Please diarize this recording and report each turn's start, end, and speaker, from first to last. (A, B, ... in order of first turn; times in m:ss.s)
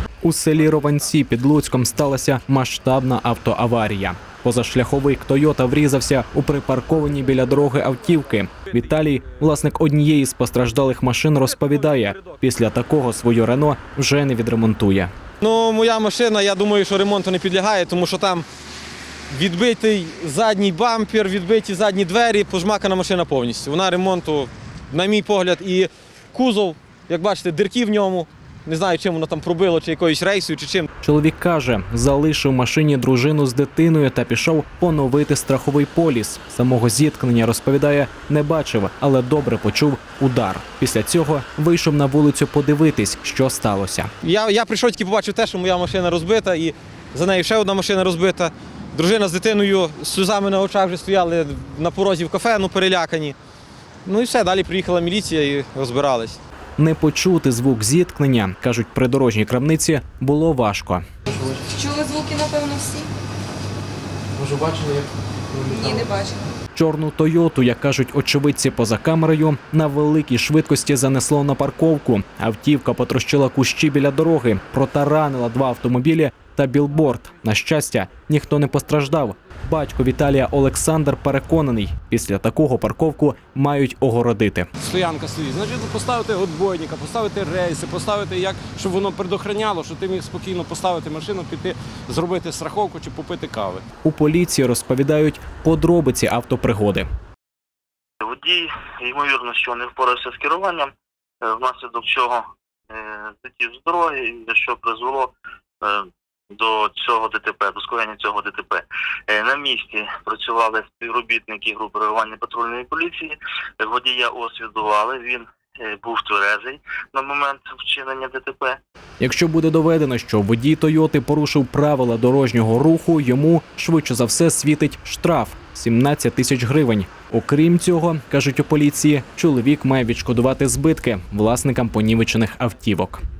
0:00.2-0:15.1 A
0:08.7-0:09.3 B
0:11.4-0:12.4 B
0:15.4-0:18.4 B
0:19.3-0:30.9 B
0:31.0-0:44.1 A
0:44.2-0:53.4 B
0:54.0-0:56.4 B
0:56.8-1:01.0 A
1:01.3-1:03.1 C
1:04.4-1:05.0 D
1:05.7-1:06.5 C
1:06.7-1:24.7 A
1:24.8-1:33.9 D
1:34.0-1:37.1 A
1:38.2-1:40.9 E
1:41.4-1:58.8 E
1:59.2-2:13.2 A